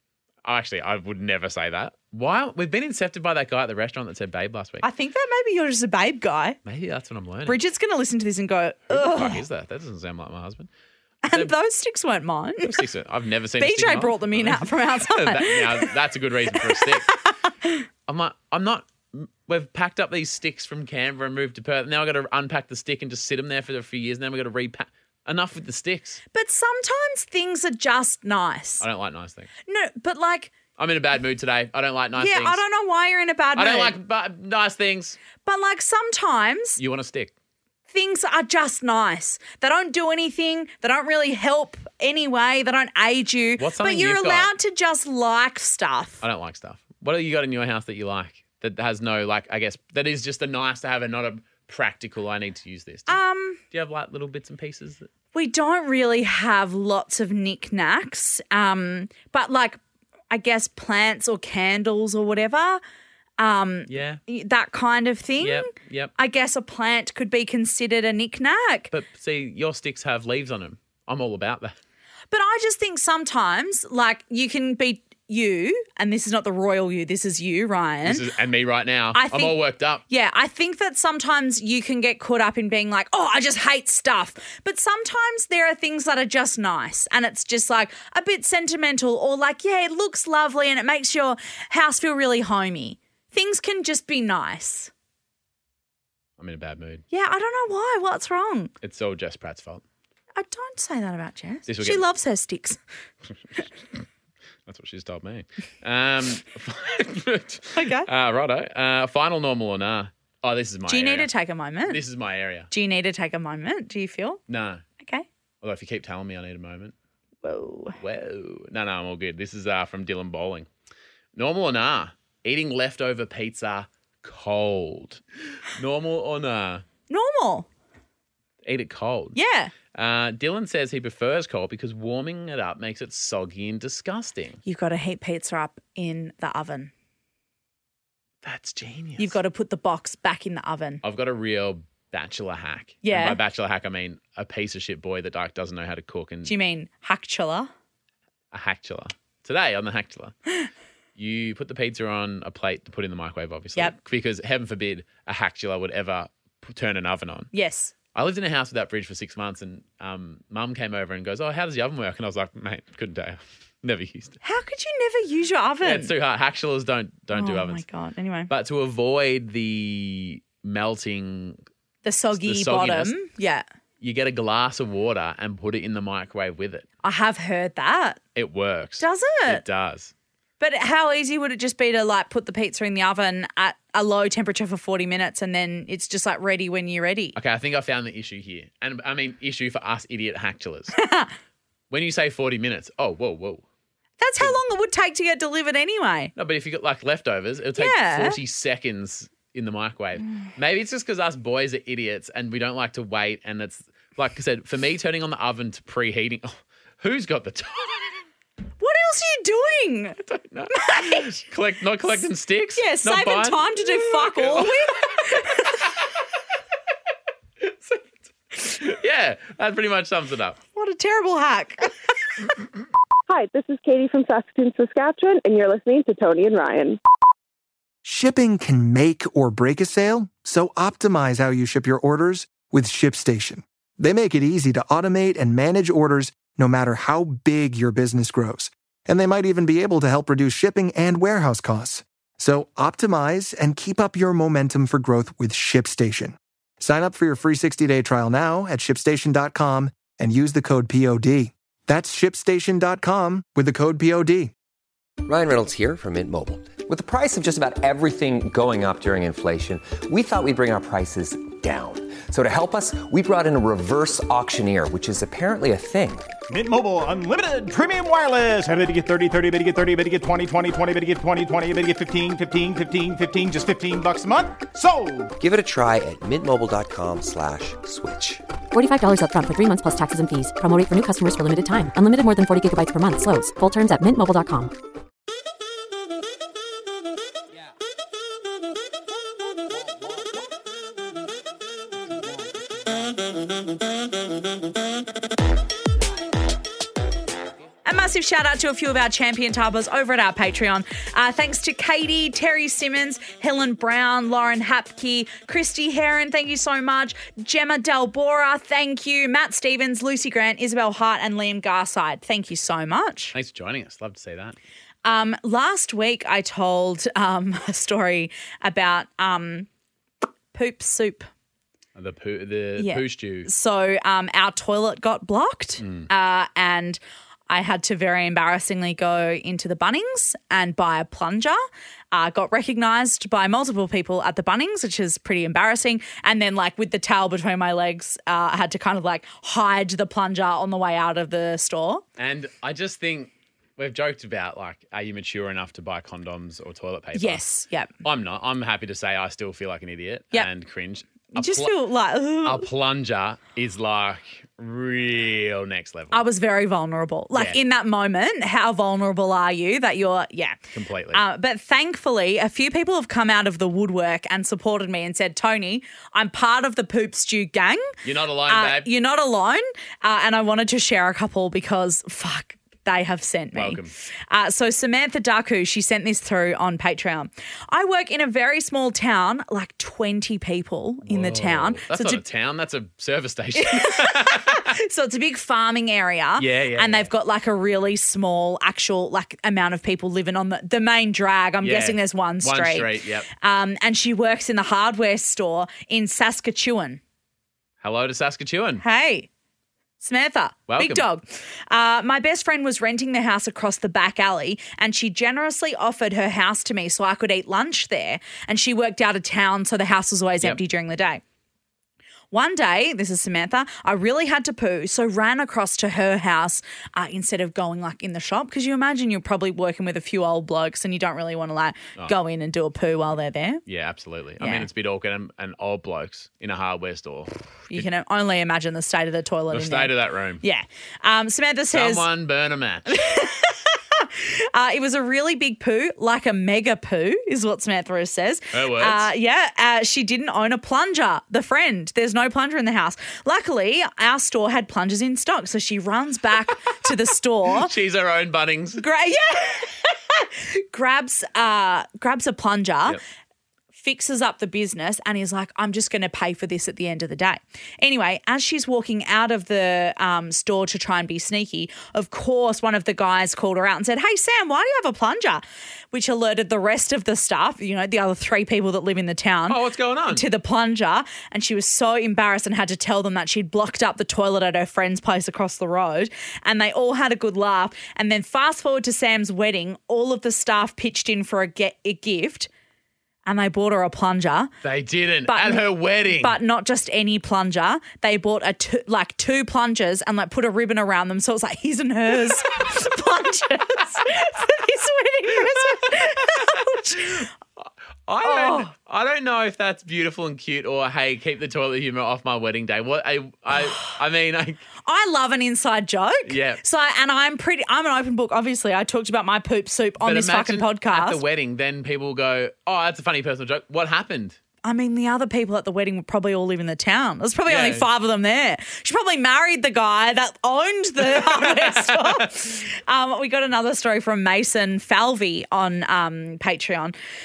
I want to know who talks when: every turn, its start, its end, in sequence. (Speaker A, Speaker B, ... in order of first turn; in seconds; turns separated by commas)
Speaker A: 0.5-4.9, Speaker B: 4.8-6.6, Speaker A: 6.7-7.6, Speaker B: 7.5-9.4, Speaker A: 8.9-10.7, Speaker B: 11.2-12.8, Speaker A: 12.6-17.1, Speaker B: 13.6-15.9, Speaker B: 16.6-17.9, Speaker A: 18.1-26.2, Speaker B: 26.3-28.9, Speaker A: 28.8-29.5, Speaker B: 29.7-30.5, Speaker A: 30.8-32.6, Speaker B: 32.2-34.0, Speaker A: 33.6-35.2, Speaker B: 35.4-36.8, Speaker A: 36.8-37.3, Speaker B: 37.9-46.2, Speaker A: 43.6-44.5, Speaker A: 46.2-53.2, Speaker B: 53.1-53.6, Speaker A: 53.7-55.1, Speaker B: 55.3-59.8, Speaker B: 60.3-62.8, Speaker B: 63.4-68.9, Speaker A: 63.9-64.2, Speaker A: 65.4-66.1, Speaker A: 68.9-71.8, Speaker B: 72.3-78.2, Speaker A: 78.0-80.0, Speaker B: 79.1-79.6, Speaker B: 80.1-94.9, Speaker A: 96.4-97.0, Speaker B: 97.1-98.7, Speaker A: 98.8-99.8, Speaker B: 100.4-102.8, Speaker A: 101.7-102.0, Speaker A: 104.7-111.3, Speaker B: 107.8-108.1, Speaker B: 110.9-112.0, Speaker A: 111.9-112.7, Speaker B: 112.7-114.4, Speaker A: 114.5-114.8, Speaker B: 115.0-115.3, Speaker A: 115.6-116.9, Speaker B: 117.4-118.0, Speaker A: 118.0-120.7, Speaker A: 121.4-126.8, Speaker B: 127.1-127.7, Speaker A: 128.6-129.4, Speaker B: 129.3-129.7, Speaker A: 129.9-134.6, Speaker B: 134.7-136.9, Speaker A: 138.4-139.4, Speaker B: 139.2-141.0, Speaker A: 141.0-146.5, Speaker B: 143.0-143.4, Speaker B: 146.4-147.7, Speaker A: 148.5-150.3, Speaker A: 151.2-157.5, Speaker B: 157.5-157.9, Speaker A: 158.1-164.4, Speaker B: 164.4-166.1, Speaker A: 165.8-167.8, Speaker B: 167.3-168.5, Speaker A: 168.5-171.6, Speaker B: 172.0-173.7, Speaker A: 172.3-173.2, Speaker A: 174.0-176.9, Speaker B: 177.0-178.2, Speaker A: 178.4-180.1, Speaker B: 179.0-179.6, Speaker B: 180.6-187.4, Speaker A: 187.4-191.0, Speaker B: 191.0-191.3, Speaker A: 191.9-193.6, Speaker B: 194.2-196.3, Speaker A: 196.4-208.2, Speaker B: 197.8-198.4, Speaker B: 208.8-210.2, Speaker A: 210.2-215.9, Speaker B: 210.7-211.4, Speaker B: 212.8-215.8, Speaker A: 217.6-220.6, Speaker B: 220.8-221.9, Speaker C: 223.3-227.0, Speaker D: 228.0-254.5, Speaker E: 255.2-266.3, Speaker F: 266.5-275.3, Speaker E: 275.4-278.4, Speaker G: 278.7-284.7, Speaker B: 297.9-313.3, Speaker A: 313.3-314.6, Speaker B: 315.0-319.7, Speaker B: 320.5-321.3, Speaker A: 322.0-323.5, Speaker B: 322.8-331.6, Speaker A: 325.8-326.1, Speaker B: 332.1-342.0, Speaker A: 342.2-347.4, Speaker B: 347.1-347.9, Speaker A: 348.0-351.8, Speaker B: 351.3-352.7, Speaker A: 352.4-356.2, Speaker B: 356.1-360.6, Speaker A: 357.3-357.6, Speaker A: 360.7-361.2, Speaker B: 361.1-367.9, Speaker A: 368.0-368.9, Speaker B: 368.5-382.2, Speaker A: 373.5-373.9, Speaker A: 381.1-384.7, Speaker B: 383.6-397.0, Speaker A: 386.4-387.1, Speaker A: 391.6-393.3, Speaker A: 397.8-398.8, Speaker B: 398.8-399.3, Speaker B: 400.0-411.2, Speaker A: 400.7-401.1, Speaker B: 412.3-423.6, Speaker A: 423.7-427.9, Speaker B: 424.4-424.7, Speaker B: 427.7-432.1, Speaker A: 429.5-430.4, Speaker A: 431.7-433.0, Speaker B: 432.9-447.7, Speaker A: 438.5-439.1, Speaker A: 447.5-448.8, Speaker B: 448.8-453.0, Speaker B: 453.8-469.6, Speaker A: 469.5-470.3, Speaker B: 470.1-482.5, Speaker B: 483.3-484.5, Speaker A: 484.6-486.4, Speaker B: 485.3-497.3, Speaker A: 495.6-504.6, Speaker B: 498.2-498.7, Speaker B: 503.6-503.9, Speaker B: 504.9-511.2, Speaker A: 506.3-506.6, Speaker A: 510.0-514.4, Speaker B: 514.6-526.9, Speaker A: 517.5-517.9, Speaker A: 521.0-522.3